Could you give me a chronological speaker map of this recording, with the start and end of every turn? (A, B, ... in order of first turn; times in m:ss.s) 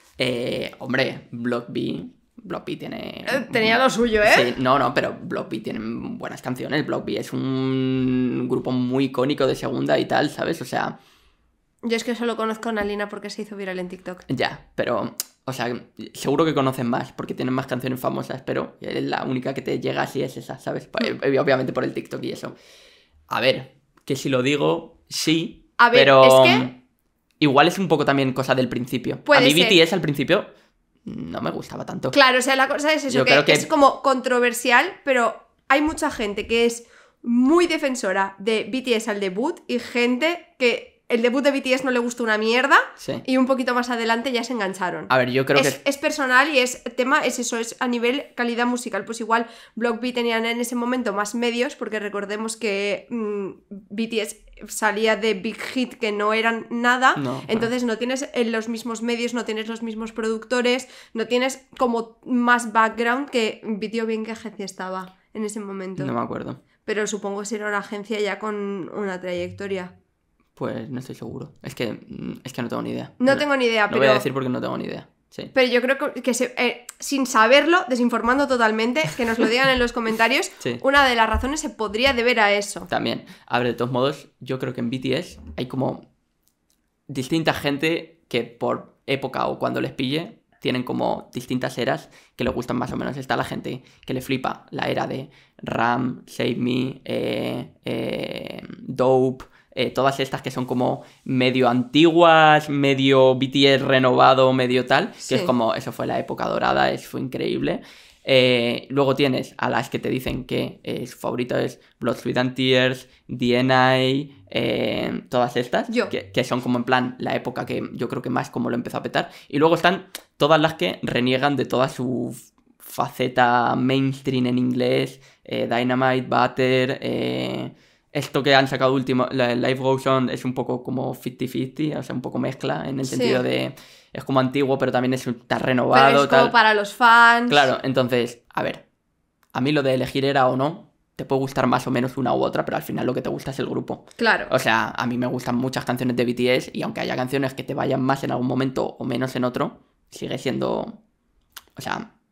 0:00.2-0:11.0 A
0:03.3-0:04.5 B
0:11.8-0:14.2 B
0:14.3-0:22.5 A
0:23.3-0:26.7 A
0:25.8-0:26.7 B
0:27.4-0:30.5 A
0:29.3-0:29.8 B
0:31.0-0:32.2 A
0:32.1-1:06.1 B
0:33.1-0:33.7 A
0:43.0-0:43.2 A
0:45.1-0:45.8 A
0:57.2-0:57.7 A
1:06.0-1:06.6 A
1:06.8-1:09.9 B
1:10.6-1:15.5 A
1:13.2-1:14.2 B
1:15.5-1:22.9 B
1:22.9-1:26.0 A
1:27.1-2:16.5 A
1:45.2-1:45.5 B
1:55.9-1:56.1 B
2:13.1-2:13.4 B
2:15.9-2:17.7 B
2:17.5-2:18.8 A
2:19.5-2:31.0 A
2:24.2-2:24.5 B
2:31.8-2:32.1 A